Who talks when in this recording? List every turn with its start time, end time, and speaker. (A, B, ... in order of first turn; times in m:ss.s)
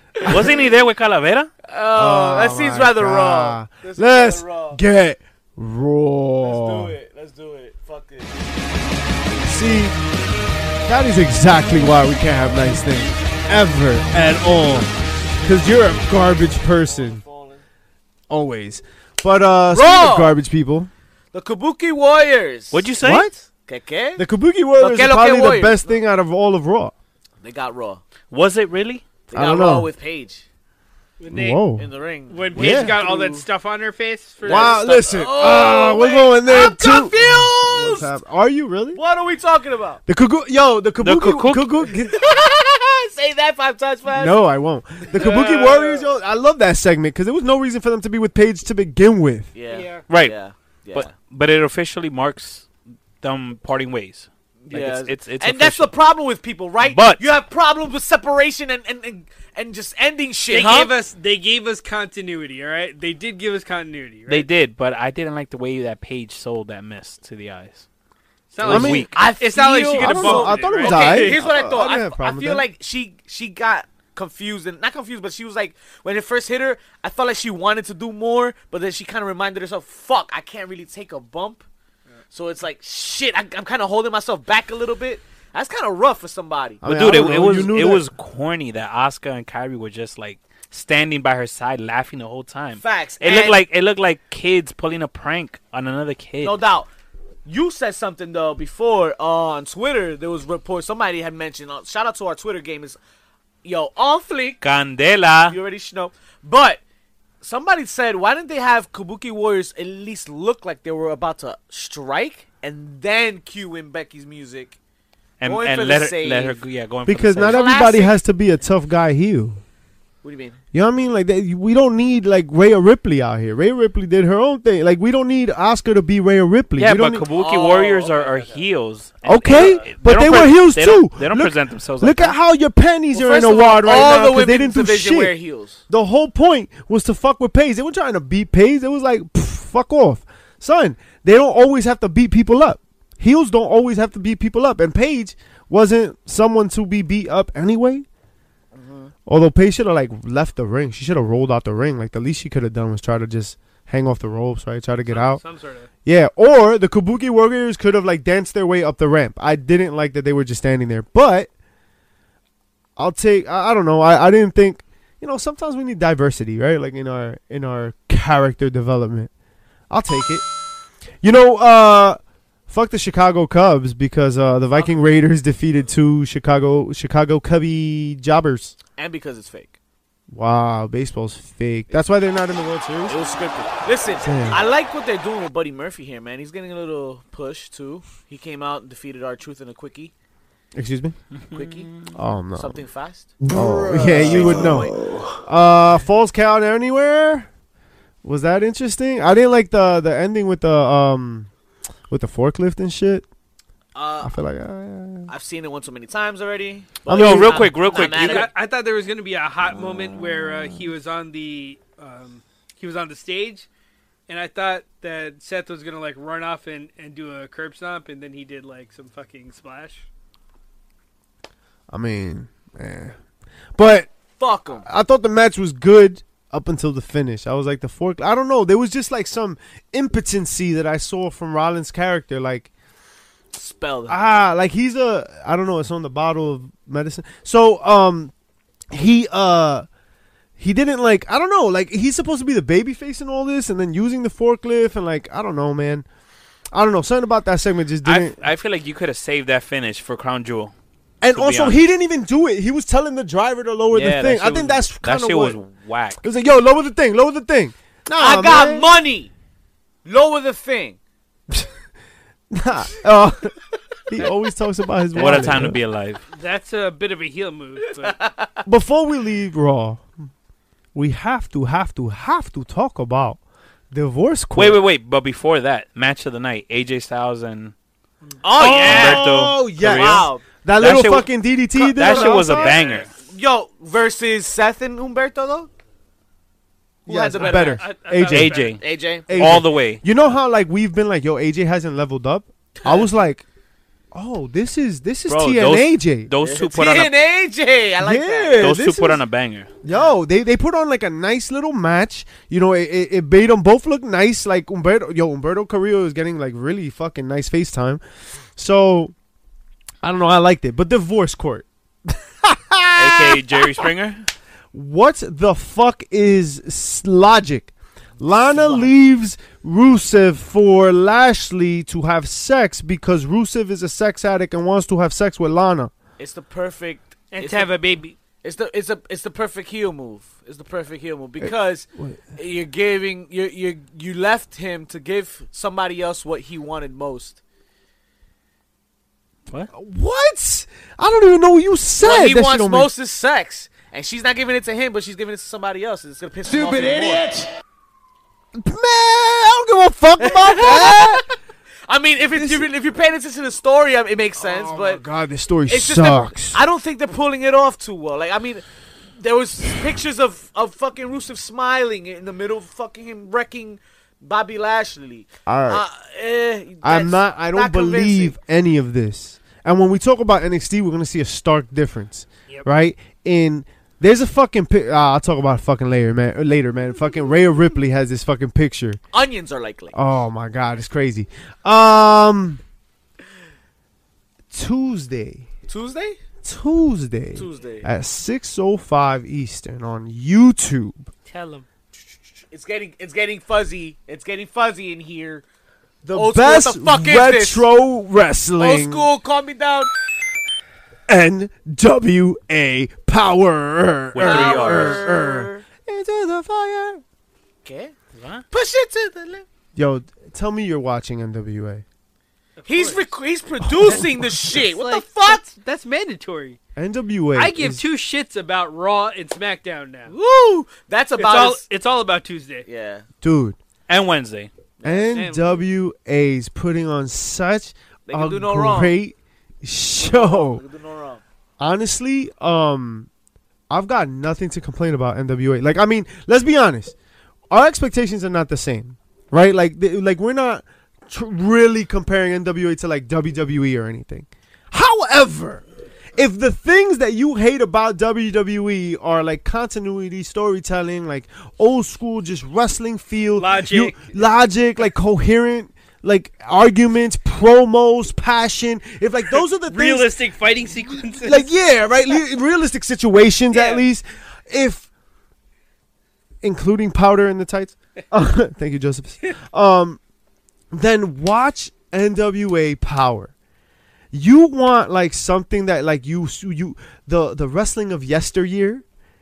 0:00.2-0:01.5 A
0:01.6-0:04.8 B
0:01.9-0:06.9 C
0:06.4-0:08.4 B
0:09.4-0:10.0 C
0:10.8-0:14.9 C
0:15.4-0:17.2 C
0:16.6-0:17.6 B
0:18.3-0:20.9 C
0:19.7-0:20.4 B
0:21.3-0:22.9 B
0:22.7-0:23.3 A
0:23.0-0:23.4 C
0:23.7-0:24.2 B
0:24.2-0:26.9 C
0:24.8-0:25.8 B
0:27.4-0:28.0 B
0:28.3-0:29.0 A
0:29.3-0:30.4 B
0:29.3-0:29.9 C
0:31.2-0:31.6 D
0:31.3-0:31.8 C
0:31.8-0:33.4 B
0:32.3-0:34.8 D
0:32.5-0:33.0 C
0:34.4-0:38.1 B
0:34.4-0:39.0 C
0:38.9-0:40.0 B
0:40.1-0:42.2 C
0:41.0-0:41.8 A
0:42.1-0:44.4 B
0:44.1-0:49.5 C
0:45.1-0:46.0 B
0:45.2-0:45.8 D
0:49.5-0:51.1 B
0:49.7-0:50.0 D
0:50.1-0:50.3 A
0:50.9-0:52.7 A
0:53.2-0:55.9 A
0:54.6-1:00.9 B
0:56.8-0:57.3 A
1:00.5-1:04.5 D
1:04.3-1:07.8 A
1:08.5-1:11.4 D
1:08.6-1:09.2 A
1:08.6-1:09.1 C
1:09.1-1:21.6 B
1:09.9-1:12.6 C
1:22.3-1:26.8 B
1:26.8-1:28.0 C
1:26.8-1:36.6 A
1:32.8-1:33.6 B
1:36.4-1:36.9 B
1:37.4-1:43.0 B
1:43.6-1:44.6 B
1:44.6-1:45.6 A
1:45.5-1:46.8 B
1:47.4-1:54.8 B
1:55.4-1:57.6 A
1:55.4-1:56.6 B
1:57.0-1:59.6 C
1:57.4-1:58.2 B
2:00.2-2:00.6 B
2:00.7-2:07.3 C
2:06.8-2:12.3 A
2:07.3-2:08.6 B
2:09.2-2:15.3 C
2:09.3-2:09.9 B
2:13.1-2:15.8 B
2:15.9-2:28.0 C
2:28.7-2:29.1 B
2:29.2-2:35.4 C
2:35.1-2:35.9 D
2:36.0-2:41.5 C
2:43.0-2:49.3 C
2:49.9-2:50.4 C
2:51.2-2:58.7 C
2:59.0-2:59.7 B
3:00.3-3:03.1 C
3:03.0-3:10.1 B
3:04.2-3:04.6 C
3:10.7-3:11.2 C
3:11.3-3:12.1 A
3:11.5-3:11.9 B
3:12.1-3:12.8 C
3:12.5-3:13.4 B
3:13.4-3:15.4 E
3:13.5-3:17.5 C
3:13.9-3:15.0 B
3:18.2-3:21.5 C
3:22.1-3:23.2 C
3:23.9-3:24.4 B
3:24.2-3:25.3 C
3:25.3-3:28.5 B
3:27.0-3:27.7 C
3:27.1-3:28.5 A
3:27.4-3:33.7 D
3:34.3-3:40.0 D
3:41.9-3:43.2 C
3:43.8-3:44.1 C
3:44.4-3:44.9 B
3:44.8-3:52.7 C
3:53.5-3:54.2 B
3:54.1-3:58.3 C
3:58.9-3:59.8 C
4:00.6-4:06.0 C
4:06.7-4:08.4 C
4:08.0-4:10.7 A
4:11.2-4:15.6 C
4:11.3-4:11.8 A
4:13.9-4:16.2 A
4:16.2-4:18.9 C
4:18.2-4:19.3 B
4:20.0-4:21.0 B
4:22.5-4:25.8 C
4:25.1-4:26.2 A
4:26.3-4:28.2 D
4:28.0-4:28.6 B
4:28.6-4:30.0 C
4:30.9-4:33.4 C
4:33.9-4:34.8 C
4:34.5-4:37.7 A
4:38.3-4:38.8 D
4:38.4-4:40.4 B
4:38.5-4:43.1 A
4:38.6-4:42.8 C
4:42.0-4:45.7 B
4:42.7-4:43.0 D
4:47.0-4:47.9 B
4:47.0-4:48.5 C
4:47.3-4:48.8 D
4:48.3-4:50.0 A
4:48.8-4:49.3 B
4:49.3-4:53.4 C
4:54.1-4:56.3 C
4:55.3-4:57.1 A
4:56.4-4:58.7 B
4:58.0-4:59.2 C
4:58.6-4:59.7 A
4:59.8-5:08.0 C
5:08.6-5:09.1 C
5:10.0-5:13.9 C
5:13.0-5:14.2 A
5:14.7-5:25.9 C
5:26.2-5:27.8 B
5:27.3-5:28.2 D
5:28.4-5:37.4 B
5:31.4-5:32.3 C
5:39.7-5:42.9 C
5:42.0-5:47.3 B
5:46.4-5:47.5 E
5:48.5-5:51.2 C
5:50.2-5:51.3 B
5:51.9-5:55.0 B
5:52.3-5:52.7 C
5:54.4-5:56.6 C
5:55.7-5:58.6 B
5:59.2-6:08.3 B
6:05.4-6:05.8 C
6:06.8-6:19.0 C
6:19.1-6:20.0 B
6:19.9-6:22.6 C
6:24.5-6:25.5 C
6:25.7-6:26.2 B
6:26.4-6:31.1 C
6:27.3-6:27.9 B
6:31.3-6:31.6 D
6:32.5-6:35.4 B
6:36.0-6:39.1 C
6:36.1-6:37.6 B
6:38.6-6:39.9 B
6:41.1-6:47.0 C
6:44.1-6:45.0 A
6:44.2-6:45.6 B
6:47.6-6:47.9 B
6:48.1-6:48.4 A
6:48.5-6:49.4 B
6:49.8-6:51.8 C
6:52.6-6:53.1 D
6:52.7-6:55.4 B
6:53.6-6:54.1 C
6:54.5-6:56.6 D
6:56.8-6:57.8 C
6:57.3-7:00.1 D
7:00.1-7:01.6 B
7:01.2-7:02.6 D
7:02.6-7:03.0 B
7:03.2-7:03.6 C
7:03.9-7:04.5 A
7:04.8-7:05.2 B
7:04.8-7:10.6 C
7:05.1-7:05.6 D
7:08.1-7:09.0 B
7:10.0-7:11.2 B
7:11.6-7:13.1 C
7:13.7-7:16.9 C
7:17.5-7:25.6 C
7:26.2-7:40.1 C
7:33.4-7:34.1 D
7:39.6-7:41.5 D
7:41.1-7:44.9 C
7:43.5-7:43.8 D
7:46.4-7:50.0 C
7:50.7-7:53.3 C
7:54.1-7:58.8 C